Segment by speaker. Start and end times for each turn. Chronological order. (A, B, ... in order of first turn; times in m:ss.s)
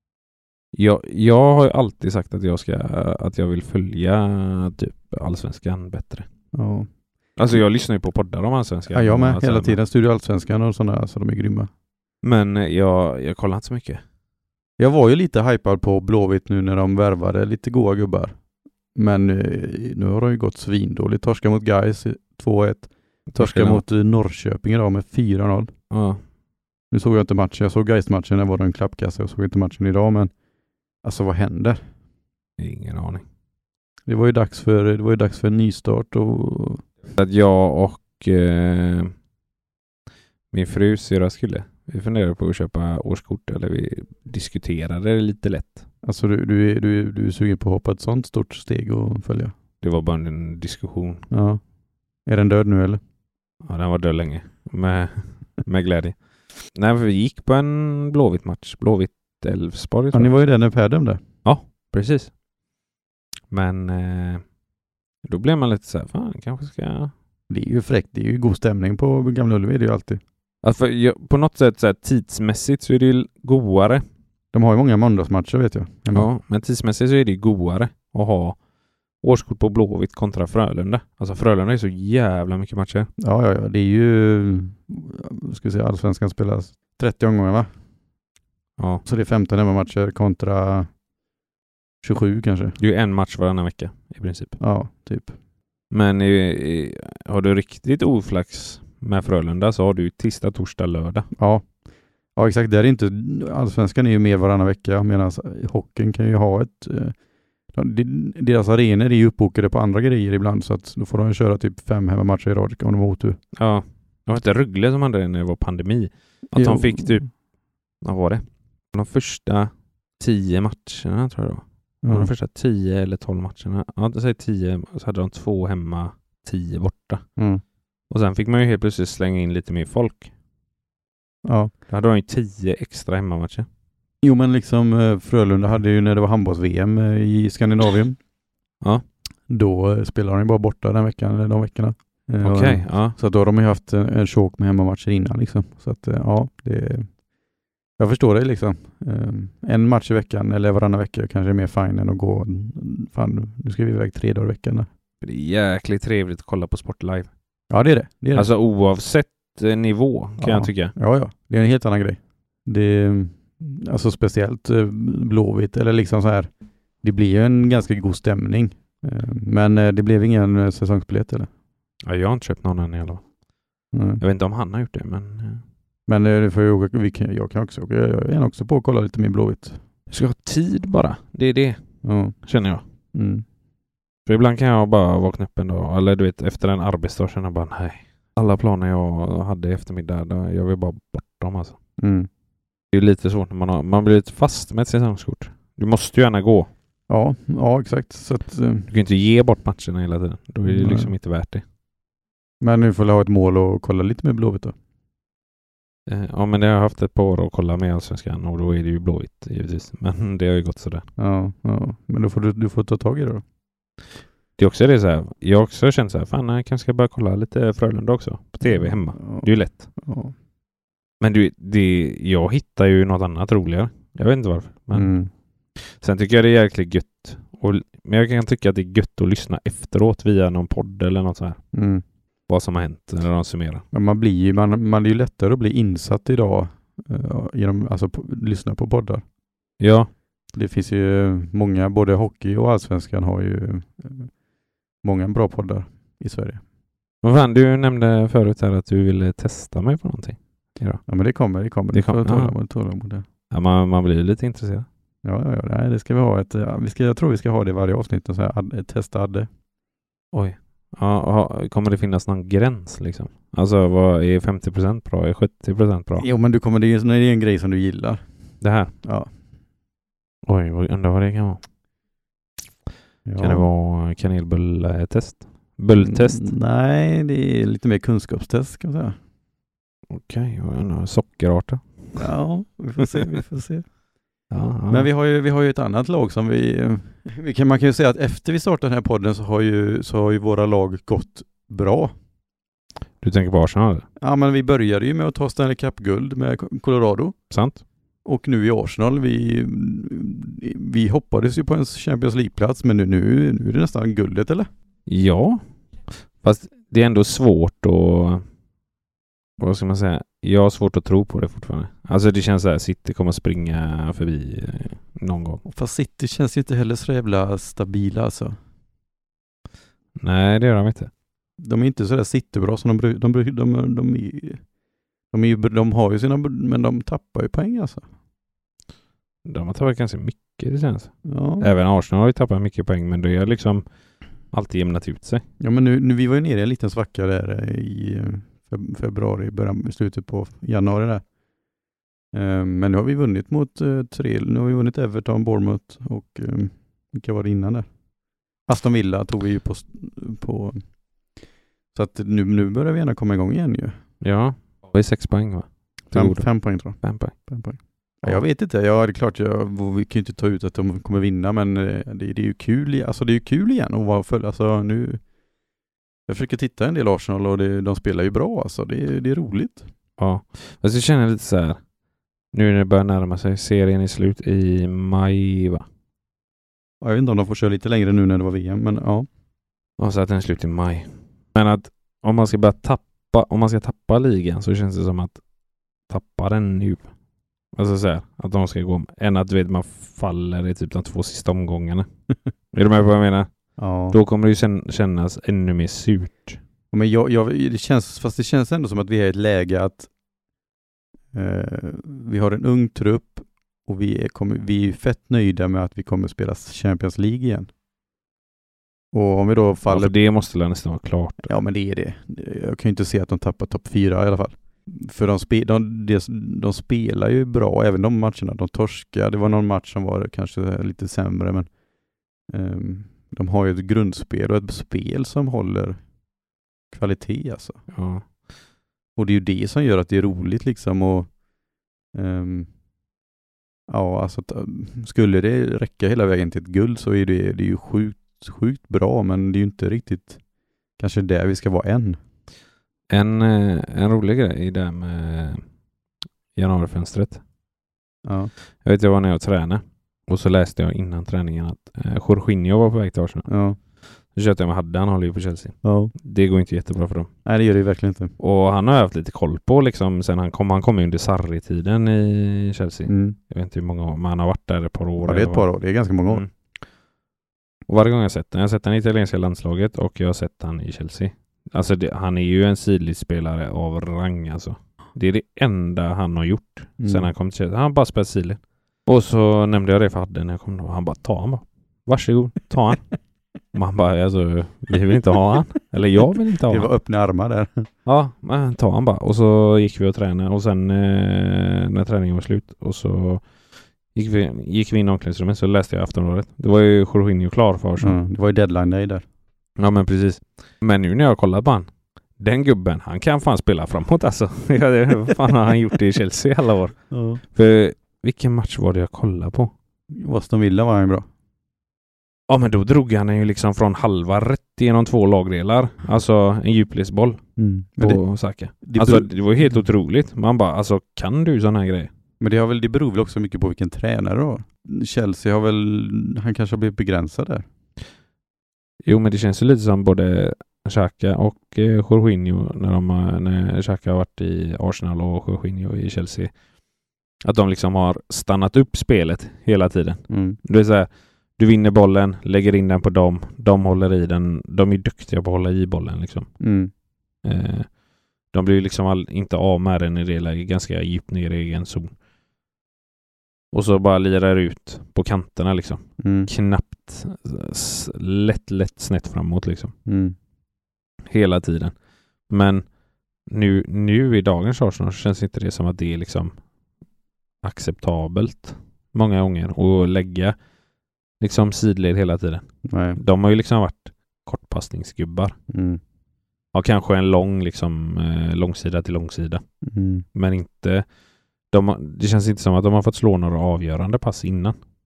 0:00.7-0:06.3 A
0:06.5-0:06.9 B
0:07.4-0:09.8 A
0:08.9-0:11.7 B
0:12.2-0:14.0 A
0:14.8-0:18.4 B
0:18.9-0:25.7 B
0:23.3-0:23.8 A
0:25.9-0:26.2 A
0:26.9-0:30.3 B
0:31.0-0:31.8 B
0:32.6-0:33.2 A
0:34.1-0:36.8 B
0:37.1-0:39.1 A
0:40.5-0:45.8 A
0:46.0-0:49.5 B
0:49.8-0:51.2 A
0:51.3-0:51.6 B
0:52.2-0:53.0 B
0:53.6-1:00.3 A
1:00.1-1:01.2 B
1:01.4-1:02.3 A
1:03.5-1:04.4 A
1:05.2-1:07.1 A
1:07.5-1:10.2 B
1:10.6-1:14.0 A
1:14.5-1:16.3 B
1:16.1-1:18.6 A
1:19.2-1:23.1 A
1:23.2-1:27.7 B
1:28.8-1:29.0 A
1:29.0-1:30.9 B
1:32.0-1:32.8 B
1:32.8-1:34.6 A
1:34.6-1:35.4 B
1:35.9-1:41.3 A
1:41.4-1:41.7 B
1:42.4-1:47.2 B
1:47.7-1:53.4 B
1:53.5-1:57.3 A
1:56.5-1:57.3 B
1:58.0-2:07.2 A
2:02.0-2:02.3 B
2:07.4-2:07.6 B
2:08.1-2:10.3 A
2:11.4-2:11.7 B
2:11.9-2:13.7 A
2:14.2-2:18.2 B
2:19.5-2:27.1 B
2:22.4-2:23.2 A
2:28.0-2:34.9 B
2:35.2-2:37.3 A
2:37.7-2:38.5 B
2:38.3-2:40.9 A
2:40.4-2:51.5 B
2:52.0-2:53.2 A
2:53.9-2:54.2 B
2:54.2-2:55.6 A
2:56.1-2:59.8 B
3:00.1-3:01.8 A
3:02.0-3:02.4 B
3:02.4-3:02.8 A
3:03.1-3:03.4 B
3:04.2-3:11.8 A
3:12.0-3:12.3 B
3:12.9-3:16.7 A
3:17.1-3:18.9 B
3:18.9-3:21.6 A
3:20.6-3:21.1 B
3:22.6-3:24.7 B
3:26.1-3:31.0 A
3:31.2-3:33.4 B
3:34.6-3:39.9 A
3:38.6-3:40.3 B
3:41.2-3:45.1 A
3:44.9-3:45.3 B
3:45.8-3:51.6 A
3:51.7-3:52.0 B
3:52.5-3:53.8 A
3:53.9-3:59.2 B
3:59.8-4:00.1 A
4:00.5-4:04.3 B
4:05.0-4:06.6 B
4:07.2-4:11.0 A
4:11.1-4:13.2 B
4:11.9-4:12.5 A
4:13.5-4:14.9 A
4:15.2-4:19.5 B
4:20.3-4:26.2 A
4:26.2-4:29.3 B
4:28.6-4:28.9 A
4:30.4-4:31.6 A
4:33.2-4:33.7 B
4:33.4-4:36.5 A
4:36.0-4:39.2 B
4:40.1-4:42.3 A
4:42.2-4:43.9 B
4:44.5-4:45.1 A
4:44.9-4:52.1 B
4:53.2-4:54.0 A
4:54.2-4:57.4 B
4:57.5-4:57.8 A
4:58.2-5:04.7 B
5:05.1-5:05.6 A
5:06.4-5:08.4 A
5:09.6-5:15.6 A
5:15.6-5:18.6 B
5:20.2-5:21.1 A
5:21.6-5:24.6 B
5:25.3-5:28.0 B
5:29.4-5:33.8 A
5:31.2-5:31.7 B
5:34.5-5:35.4 A
5:35.6-5:41.2 B
5:42.3-5:47.9 B
5:48.7-5:50.9 B
5:51.9-5:54.0 B
5:54.2-5:57.3 A
5:56.1-6:05.2 B
6:06.3-6:09.9 B
6:10.2-6:11.8 A
6:12.5-6:15.8 A
6:17.0-6:19.3 B
6:20.0-6:25.4 A
6:26.1-6:27.1 A
6:27.7-6:32.1 A
6:32.7-6:33.5 A
6:33.8-6:34.2 B
6:34.1-6:36.6 A
6:36.9-6:40.1 B
6:41.3-6:47.7 B
6:49.1-6:50.1 B
6:49.9-6:51.5 A
6:51.4-7:01.7 B
7:02.5-7:06.0 B
7:06.9-7:07.8 B
7:07.9-7:08.2 A
7:09.2-7:11.3 B
7:12.1-7:12.7 B
7:13.9-7:20.4 B
7:21.0-7:22.2 B
7:23.1-7:25.6 A
7:26.5-7:27.4 A
7:28.2-7:28.5 B
7:28.8-7:33.4 A
7:33.5-7:33.8 B
7:34.3-7:37.3 A
7:35.8-7:36.1 B
7:37.4-7:38.3 B
7:38.4-7:45.6 A
7:43.0-7:43.4 B
7:45.2-7:46.4 B
7:47.9-8:03.1 A
7:57.0-7:57.3 B
8:03.7-8:06.9 A
8:06.7-8:07.9 B
8:08.0-8:13.4 A
8:14.1-8:18.2 A
8:18.0-8:19.2 B
8:19.8-8:29.7 A
8:27.1-8:27.4 B
8:30.1-8:31.2 B
8:32.5-8:37.4 A
8:37.6-8:38.2 B
8:38.0-8:42.1 A
8:38.8-8:39.3 B
8:42.4-8:47.6 B
8:49.0-8:56.5 A
8:57.4-9:06.5 A
9:00.3-9:00.6 B
9:06.6-9:06.9 B
9:07.4-9:07.9 A
9:08.5-9:12.1 A
9:13.7-9:19.9 A
9:16.2-9:16.5 B
9:20.0-9:20.3 B
9:21.3-9:21.9 A
9:22.5-9:22.8 A
9:23.5-9:26.5 A
9:27.6-9:30.5 A
9:31.4-9:35.5 A
9:32.8-9:33.2 B
9:35.7-9:36.0 B
9:36.7-9:39.6 A
9:39.8-9:40.2 B
9:40.3-9:41.0 A
9:41.7-9:44.8 A